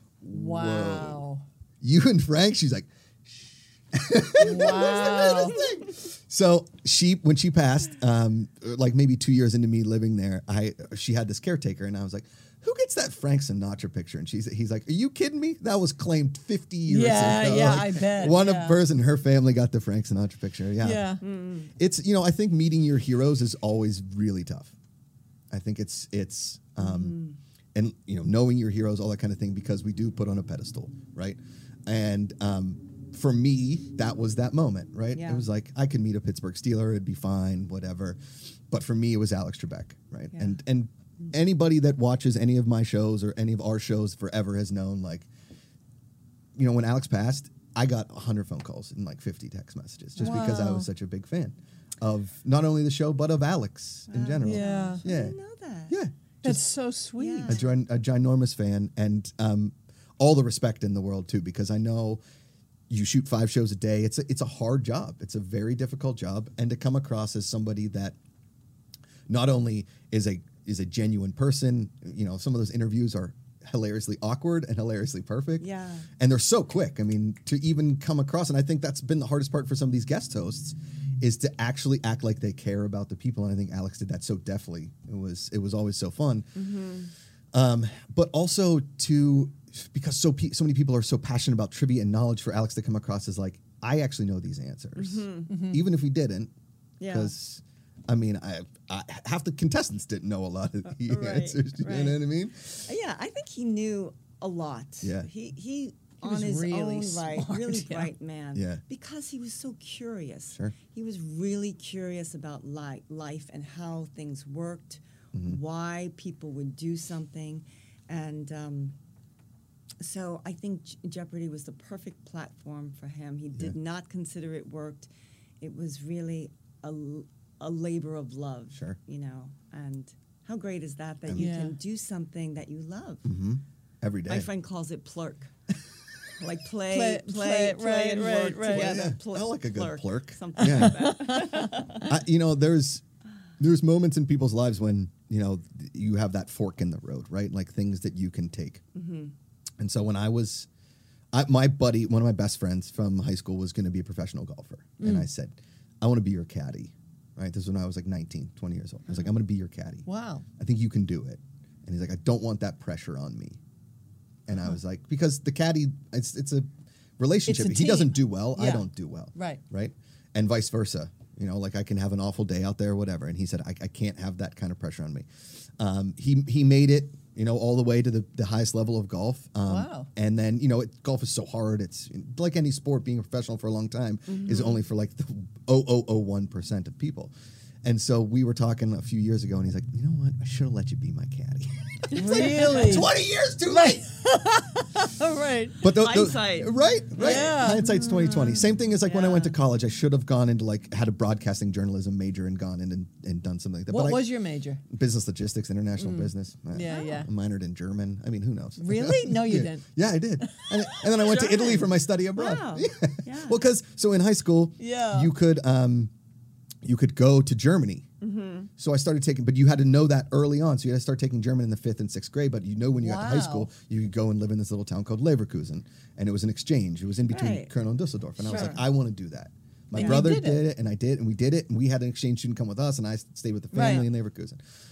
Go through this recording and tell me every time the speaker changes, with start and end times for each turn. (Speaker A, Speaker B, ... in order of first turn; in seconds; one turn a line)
Speaker A: 0.2-1.2
Speaker B: 0.3-1.4
Speaker A: 1.8-21.2
Speaker B: 4.3-5.6
Speaker B: 16.9-18.8
Speaker B: 20.8-21.2
Speaker C: 21.2-21.7
Speaker A: 21.8-24.7
Speaker A: 25.5-27.2
Speaker C: 26.8-27.4
Speaker A: 27.7-45.3
Speaker C: 35.1-35.5
Speaker C: 40.3-40.6
Speaker A: 46.5-55.4
Speaker C: 50.2-50.5
Speaker B: 50.2-50.9
Speaker C: 54.1-56.0
Speaker B: 54.4-55.0
Speaker A: 55.9-56.7
Speaker B: 56.4-57.6
Speaker C: 57.2-57.7
Speaker A: 57.4-62.2
Speaker A: 62.9-68.2
Speaker A: 69.3-75.7
Speaker C: 75.6-76.1
Speaker A: 76.2-86.7
Speaker C: 86.5-87.1
Speaker A: 87.5-96.5
Speaker C: 95.0-95.5
Speaker B: 95.5-95.8
Speaker C: 97.0-97.3
Speaker A: 97.1-102.9
Speaker C: 100.8-102.2
Speaker C: 102.8-118.9
Speaker A: 105.0-105.3
Speaker B: 106.2-108.1
Speaker A: 108.5-108.8
Speaker A: 115.3-115.6
Speaker C: 120.0-125.1
Speaker C: 125.6-133.3
Speaker A: 128.7-129.0
Speaker A: 131.2-131.5
Speaker B: 131.3-131.8
Speaker A: 133.2-134.5
Speaker C: 134.2-135.5
Speaker C: 136.4-142.1
Speaker B: 136.9-139.1
Speaker A: 138.7-143.0
Speaker B: 140.6-141.8
Speaker A: 143.6-148.8
Speaker C: 148.9-149.3
Speaker A: 149.8-150.7
Speaker A: 151.3-160.1
Speaker B: 155.0-155.3
Speaker B: 160.1-160.4
Speaker A: 160.6-163.6
Speaker A: 164.5-166.7
Speaker A: 167.2-175.3
Speaker B: 167.4-169.6
Speaker A: 175.8-187.3
Speaker B: 179.7-180.1
Speaker C: 184.3-184.8
Speaker A: 187.8-194.1
Speaker C: 192.1-192.9
Speaker B: 192.1-193.1
Speaker B: 193.7-195.8
Speaker A: 195.8-216.1
Speaker C: 195.8-197.7
Speaker B: 197.2-199.5
Speaker B: 203.9-204.8
Speaker B: 206.0-207.3
Speaker C: 206.9-207.2
Speaker B: 208.8-209.9
Speaker B: 210.4-210.8
Speaker C: 211.2-213.6
Speaker B: 214.8-215.3
Speaker A: 216.8-218.1
Speaker C: 218.2-218.7
Speaker A: 218.8-234.6
Speaker B: 223.0-223.7
Speaker C: 227.3-227.7
Speaker C: 228.4-228.8
Speaker B: 228.4-228.8
Speaker C: 229.9-230.2
Speaker B: 229.9-230.6
Speaker B: 233.7-234.1